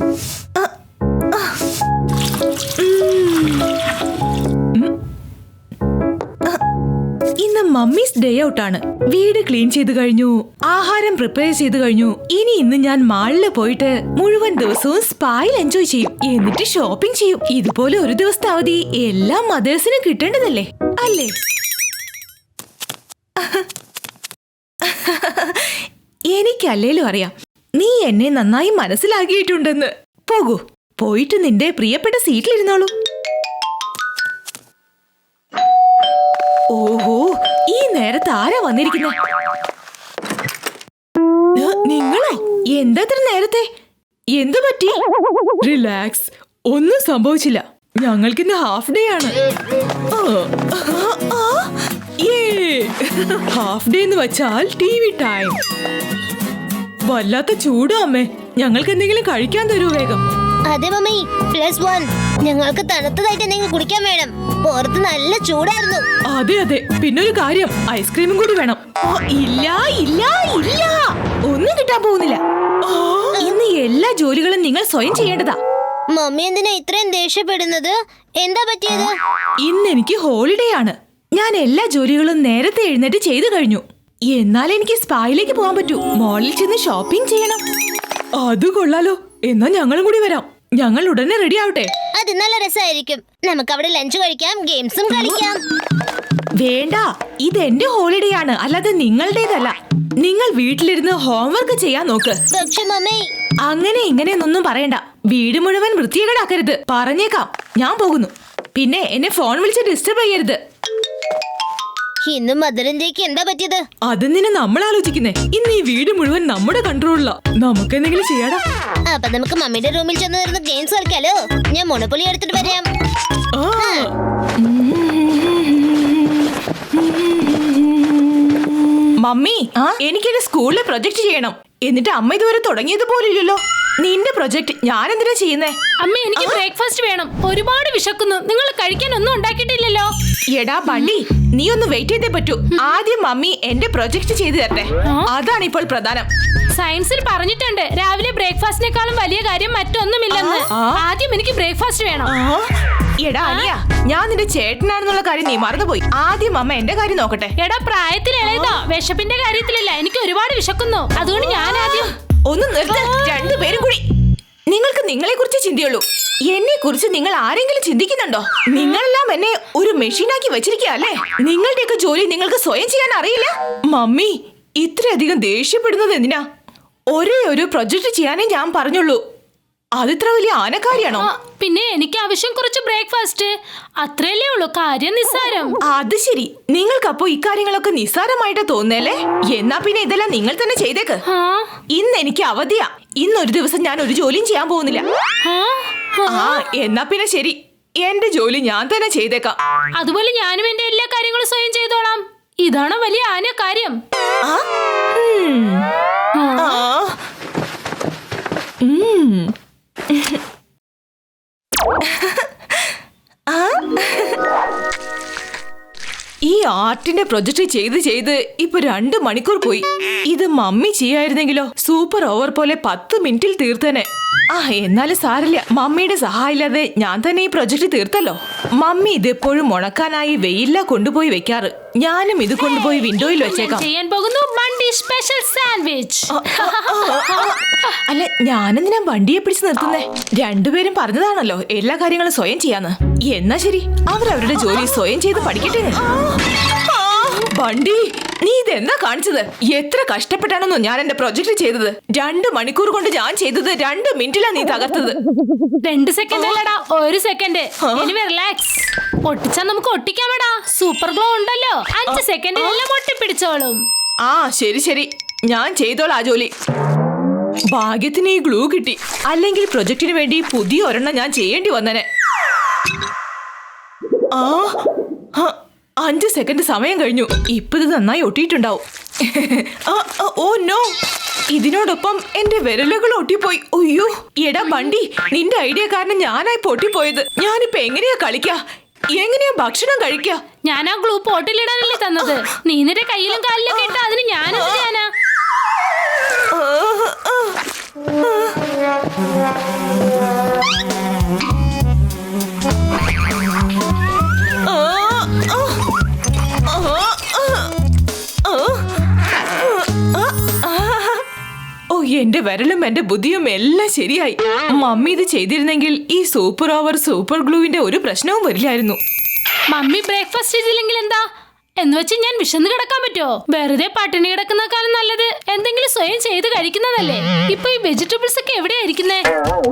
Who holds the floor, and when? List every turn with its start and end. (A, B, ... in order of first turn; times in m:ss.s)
0:01.3-0:01.6 A
0:02.8-0:03.7 A
0:07.4-0:21.3 A
0:23.4-0:23.7 A
0:24.8-0:32.9 A
0:36.7-0:39.2 A
0:41.6-0:43.7 A
0:44.4-0:45.0 A
0:45.6-0:49.4 A
0:50.1-0:55.6 A
0:57.0-1:00.2 A
1:00.7-1:06.0 B
1:06.3-1:15.6 A
1:16.1-1:19.1 B
1:19.6-1:27.6 A
1:28.4-1:31.9 A
1:32.2-1:35.6 B
1:35.1-1:35.4 A
1:36.6-1:42.4 A
1:42.5-1:43.2 B
1:43.6-1:50.6 A
1:52.2-1:53.8 B
1:54.1-1:58.6 A
1:59.1-2:02.8 B
2:03.5-2:15.8 A
2:16.0-2:20.1 C
2:16.4-2:16.6 A
2:20.5-2:26.3 A
2:26.7-2:32.3 C
2:30.3-2:31.0 A
2:32.2-2:37.5 A
2:37.6-2:42.1 C
2:38.4-2:38.8 A
2:41.2-2:44.0 A
2:44.7-2:56.4 A
2:57.1-2:59.2 A
3:00.0-3:01.3 A
3:01.3-3:05.7 C
3:05.8-3:11.2 A
3:11.3-3:11.7 C
3:11.9-3:15.1 A
3:15.4-3:16.4 C
3:16.2-3:19.6 A
3:20.0-3:24.0 C
3:24.4-3:25.9 A
3:26.4-3:26.6 C
3:26.6-3:27.2 A
3:28.8-3:29.5 A
3:30.1-3:30.4 A
3:32.0-3:33.0 A
3:33.5-3:34.4 A
3:36.4-3:53.9 A
3:52.6-3:57.5 C
3:56.3-4:15.2 A
4:15.8-4:23.8 C
4:16.3-4:16.6 A
4:17.8-4:18.1 A
4:22.1-4:22.8 A
4:24.2-4:26.5 A
4:27.7-4:32.0 A
4:34.3-4:34.7 A
4:35.3-4:40.9 A
4:41.5-4:48.6 A
4:49.1-4:50.4 A
4:50.6-4:55.1 C
4:53.4-4:54.9 A
4:56.5-4:57.6 A
4:58.2-4:58.6 A
5:04.6-5:05.8 A
5:06.7-5:07.7 A
5:08.4-5:08.9 A
5:09.6-5:11.2 A
5:11.9-5:19.0 A
5:19.7-5:21.2 C
5:21.8-5:29.2 C